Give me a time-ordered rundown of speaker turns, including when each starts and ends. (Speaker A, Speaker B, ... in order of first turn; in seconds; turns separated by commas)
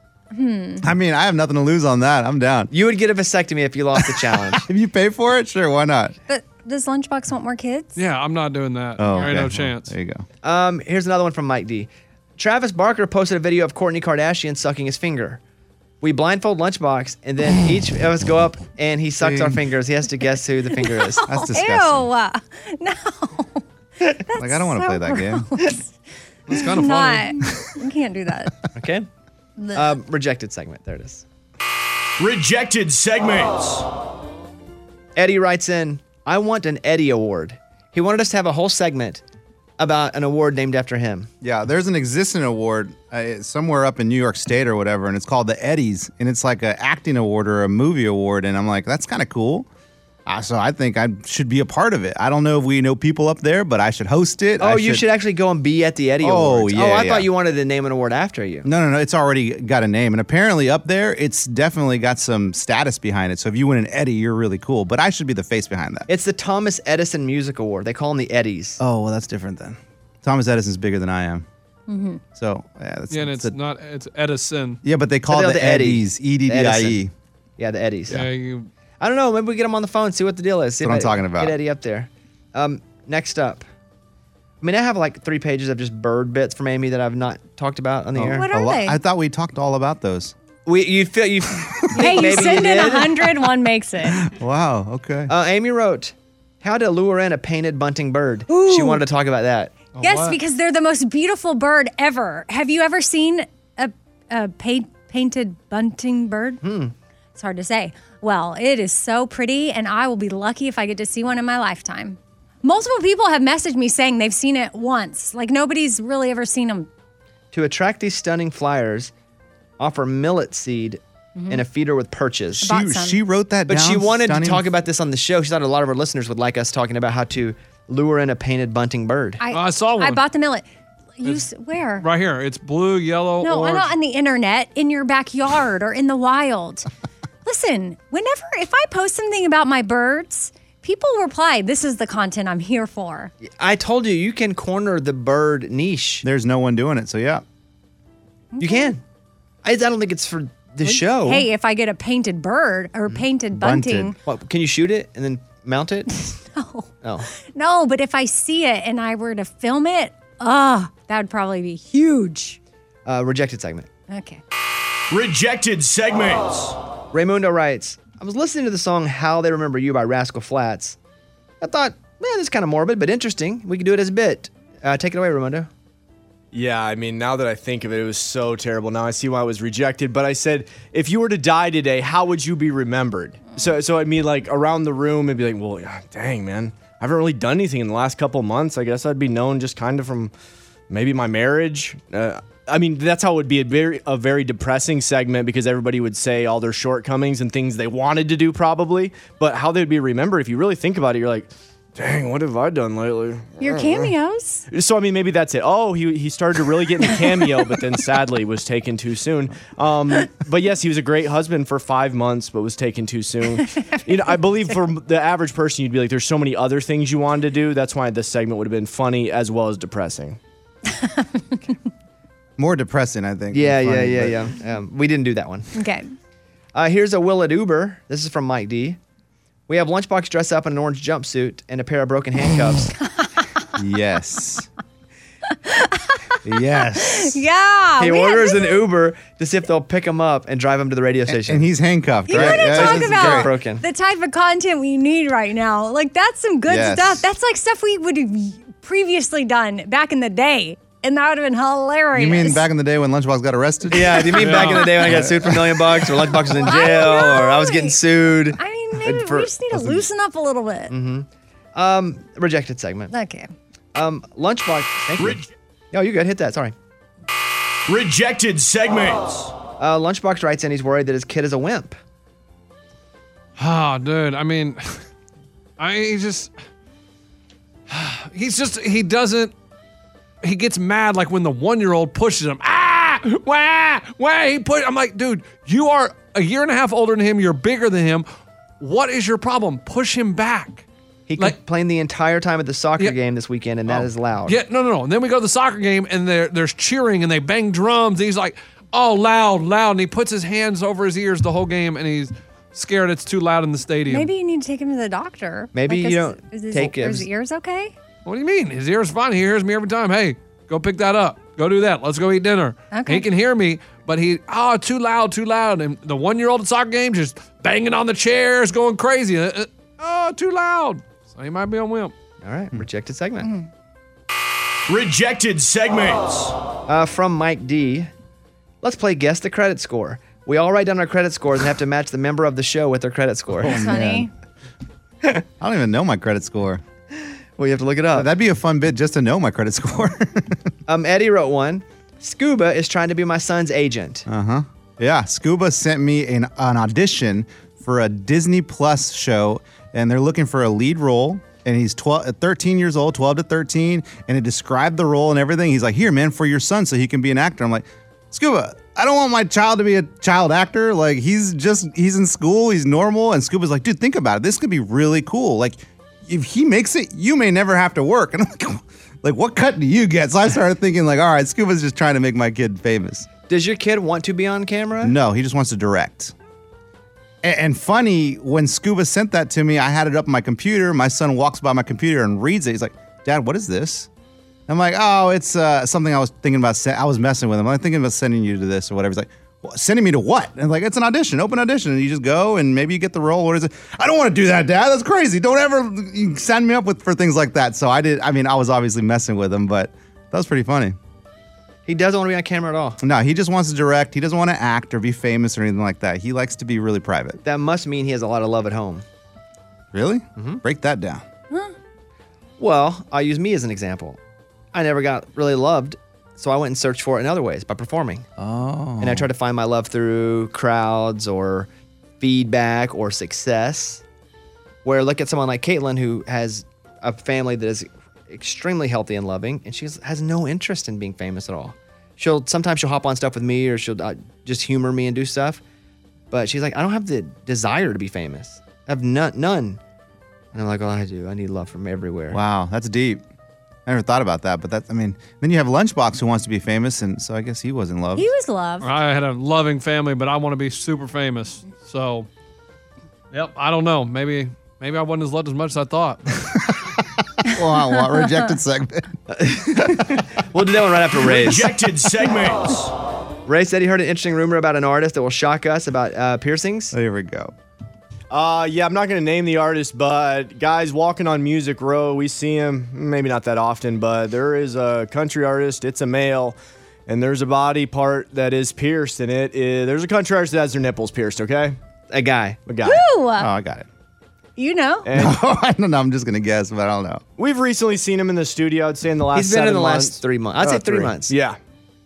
Speaker A: 0.3-0.9, Speaker B: 0.8-2.7, Speaker C: 2.7-4.7, Speaker B: 4.5-6.1, Speaker A: 6.3-8.0, Speaker D: 8.0-9.9, Speaker B: 9.0-10.2, Speaker A: 9.0-9.3, Speaker C: 10.4-15.4, Speaker C: 16.0-21.2, Speaker B: 19.2-19.6, Speaker A: 21.1-25.9, Speaker B: 21.2-22.1, Speaker B: 24.3-25.5, Speaker D: 26.5-27.3, Speaker A: 26.5-28.6, Speaker C: 28.7-29.1, Speaker A: 29.6-30.0, Speaker C: 29.7-31.2, Speaker E: 32.2-33.9, Speaker C: 35.1-39.2, Speaker C: 39.8-41.3, Speaker B: 41.4-49.7, Speaker B: 50.2-55.0, Speaker C: 54.6-58.7, Speaker B: 56.2-57.3, Speaker B: 58.6-66.1, Speaker C: 66.1-68.8, Speaker B: 68.8-71.4, Speaker A: 71.9-72.2, Speaker B: 72.3-73.5, Speaker D: 73.1-74.8, Speaker B: 74.8-77.1, Speaker C: 75.3-77.0, Speaker C: 77.6-78.2, Speaker D: 78.1-78.7, Speaker C: 79.0-83.6, Speaker B: 80.8-81.5, Speaker C: 84.6-88.5, Speaker B: 88.1-90.3, Speaker A: 88.3-89.0, Speaker C: 90.7-93.3, Speaker B: 91.6-92.1, Speaker A: 91.9-94.3, Speaker B: 94.1-95.3, Speaker C: 95.3-99.8, Speaker A: 98.5-99.0, Speaker D: 99.9-100.4, Speaker A: 100.0-106.6, Speaker C: 106.6-106.9, Speaker A: 107.3-116.9, Speaker C: 117.5-119.1, Speaker C: 119.8-122.7, Speaker A: 121.3-121.6, Speaker A: 122.6-123.2, Speaker B: 122.6-124.7, Speaker C: 123.7-129.4, Speaker A: 129.4-132.1, Speaker D: 129.5-130.2, Speaker D: 132.0-133.9, Speaker A: 133.4-136.9, Speaker A: 137.4-143.3, Speaker C: 143.6-146.2, Speaker B: 146.2-147.4, Speaker A: 148.6-148.9, Speaker C: 148.6-149.0, Speaker C: 149.6-151.5, Speaker A: 150.9-154.2, Speaker B: 153.5-154.1, Speaker C: 154.2-156.2, Speaker A: 156.3-162.6, Speaker C: 163.1-163.9, Speaker A: 164.1-164.4, Speaker E: 165.1-166.8, Speaker C: 167.1-171.0, Speaker C: 171.6-175.7, Speaker E: 176.5-190.3, Speaker E: 190.9-204.1, Speaker A: 203.6-204.7, Speaker E: 204.7-220.4, Speaker A: 213.6-214.7, Speaker A: 220.9-221.7, Speaker B: 222.6-224.4, Speaker C: 223.5-225.8, Speaker A: 225.7-226.1, Speaker C: 226.7-229.0, Speaker C: 229.7-232.9, Speaker A: 233.0-233.6, Speaker B: 233.8-234.7, Speaker A: 235.5-238.8, Speaker B: 236.4-237.4, Speaker C: 238.0-241.7, Speaker B: 241.3-243.5, Speaker A: 242.3-252.7, Speaker C: 242.3-243.8, Speaker B: 246.7-247.2, Speaker B: 252.1-256.0, Speaker C: 253.9-259.5, Speaker D: 254.4-255.0, Speaker A: 256.5-258.0, Speaker A: 258.5-260.9, Speaker B: 259.7-260.0, Speaker C: 260.9-263.1, Speaker A: 263.1-263.5, Speaker C: 263.9-266.7, Speaker E: 267.9-269.5, Speaker C: 269.8-272.0, Speaker D: 273.6-275.0, Speaker D: 275.8-276.5, Speaker D: 277.9-279.5, Speaker D: 280.4-288.3, Speaker D: 288.8-290.9, Speaker C: 291.3-294.6, Speaker D: 293.9-304.3, Speaker A: 304.1-307.9, Speaker C: 305.7-307.3, Speaker D: 308.2-322.1, Speaker A: 312.9-313.2, Speaker C: 322.4-323.5, Speaker E: 324.9-326.6, Speaker C: 326.9-328.1, Speaker C: 328.8-333.8, Speaker B: 333.6-334.3, Speaker A: 333.7-334.3, Speaker B: 335.6-336.8, Speaker C: 337.6-338.3, Speaker B: 338.1-340.7, Speaker C: 340.9-344.3, Speaker B: 344.3-373.3, Speaker C: 373.5-375.1, Speaker B: 375.0-376.3, Speaker B: 377.4-384.1, Speaker B: 384.7-400.9, Speaker C: 401.9-403.0, Speaker B: 403.0-407.4, Speaker C: 407.4-409.0, Speaker B: 409.9-411.2, Speaker C: 412.6-414.2, Speaker C: 414.7-418.3, Speaker B: 418.4-419.3, Speaker C: 419.0-421.7, Speaker C: 422.2-424.0, Speaker C: 424.8-435.6, Speaker C: 436.3-439.8, Speaker C: 440.5-442.4, Speaker B: 442.3-443.2, Speaker B: 443.9-448.3, Speaker A: 448.1-448.9, Speaker D: 448.8-452.3, Speaker D: 453.3-456.3, Speaker B: 456.5-459.2, Speaker C: 459.3-461.7, Speaker E: 461.2-462.9, Speaker C: 463.4-466.9, Speaker B: 466.9-467.5, Speaker E: 468.3-481.8, Speaker C: 482.1-482.6, Speaker E: 482.6-483.0, Speaker A: 482.8-483.5, Speaker B: 483.4-483.9, Speaker A: 484.6-485.1, Speaker E: 485.1-485.4, Speaker B: 485.1-487.2, Speaker E: 487.4-491.6, Speaker C: 489.3-491.3